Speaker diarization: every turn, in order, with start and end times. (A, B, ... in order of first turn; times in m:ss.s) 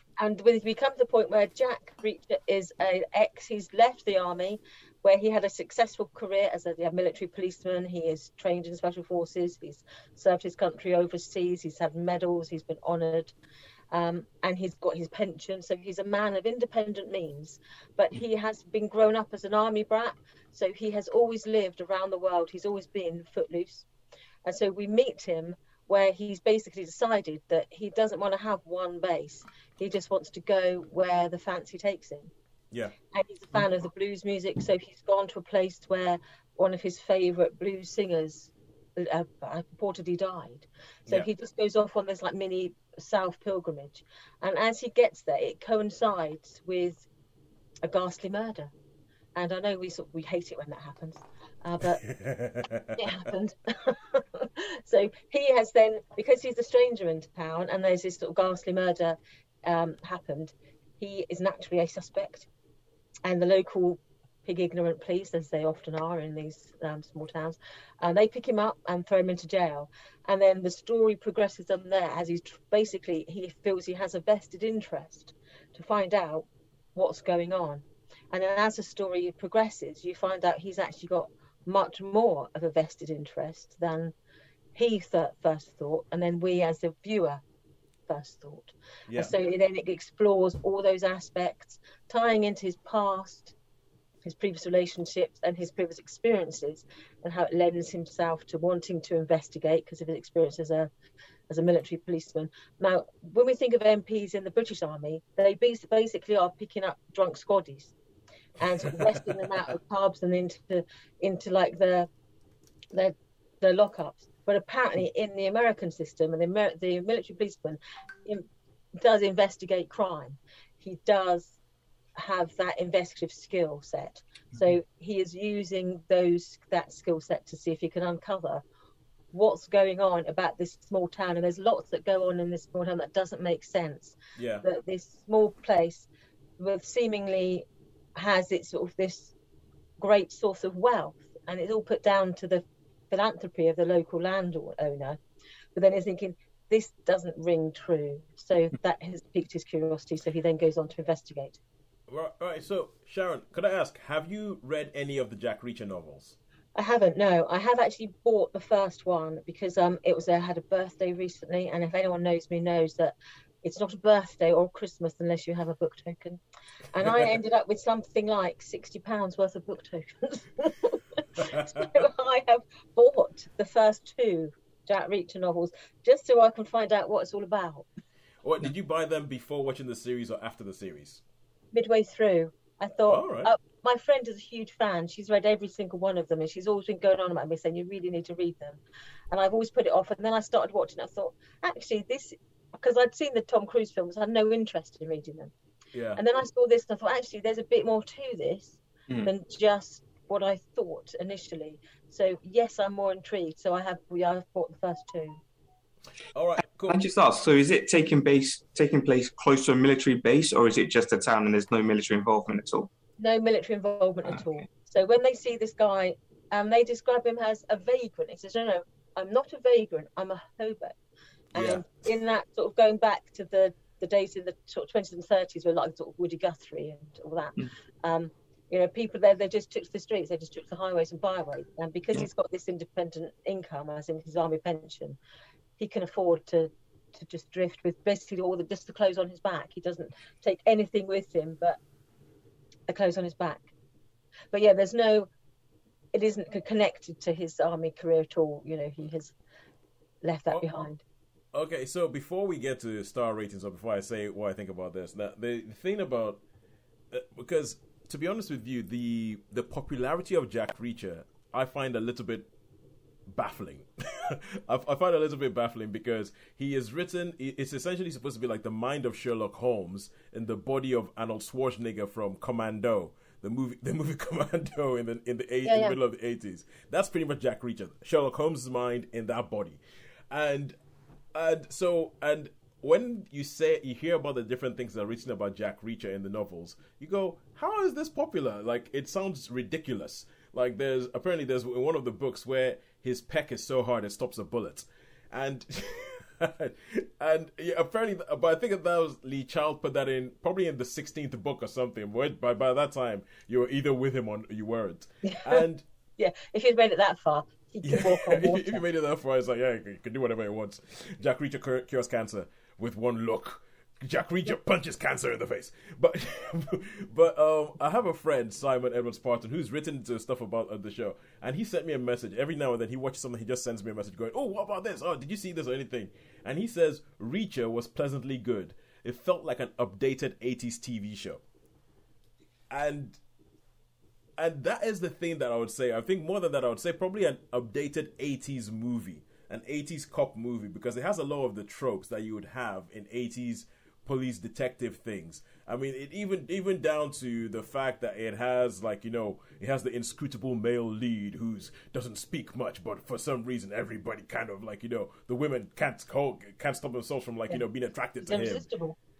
0:00.2-0:13.3 A
0:13.9-0:23.9 A
0:24.4-0:32.3 A
0:33.1-0:47.0 A
0:47.8-0:48.7 A
0:49.4-0:52.0 A
0:52.0-0:53.1 B
0:53.0-1:02.5 A
1:03.2-1:24.1 A
1:24.7-1:27.4 A
1:28.1-1:33.5 A
1:29.1-1:29.3 B
1:34.2-1:40.9 A
1:41.5-1:47.9 A
1:48.6-1:52.1 A
1:52.9-2:01.6 A
2:02.2-2:08.6 A
2:09.3-2:16.1 A
2:14.4-2:14.6 B
2:16.6-2:19.3 A
2:20.0-2:25.2 A
2:25.7-2:31.6 A
2:32.1-2:36.4 B
2:36.7-2:46.4 A
2:46.9-2:57.9 A
2:47.0-2:47.4 B
2:51.4-2:52.0 B
2:58.4-3:01.2 B
3:01.7-3:08.8 A
3:03.1-3:03.5 B
3:09.3-3:15.5 A
3:15.9-3:16.2 B
3:16.2-3:25.4 A
3:26.3-3:27.0 B
3:26.8-3:32.9 C
3:33.2-3:41.0 A
3:41.5-3:41.8 B
3:41.5-3:55.2 A
3:55.8-4:01.8 A
4:02.9-4:03.7 A
4:04.5-4:05.3 A
4:06.1-4:09.3 A
4:10.2-4:11.0 A
4:11.5-4:16.4 B
4:17.1-4:22.5 B
4:23.3-4:39.8 B
4:35.6-4:36.0 A
4:40.3-4:40.8 B
4:41.3-5:05.8 B
5:05.2-5:05.5 A
5:06.2-5:08.8 A
5:07.8-5:31.4 B
5:32.7-5:33.2 B
5:34.4-5:58.6 B
5:58.2-5:59.0 A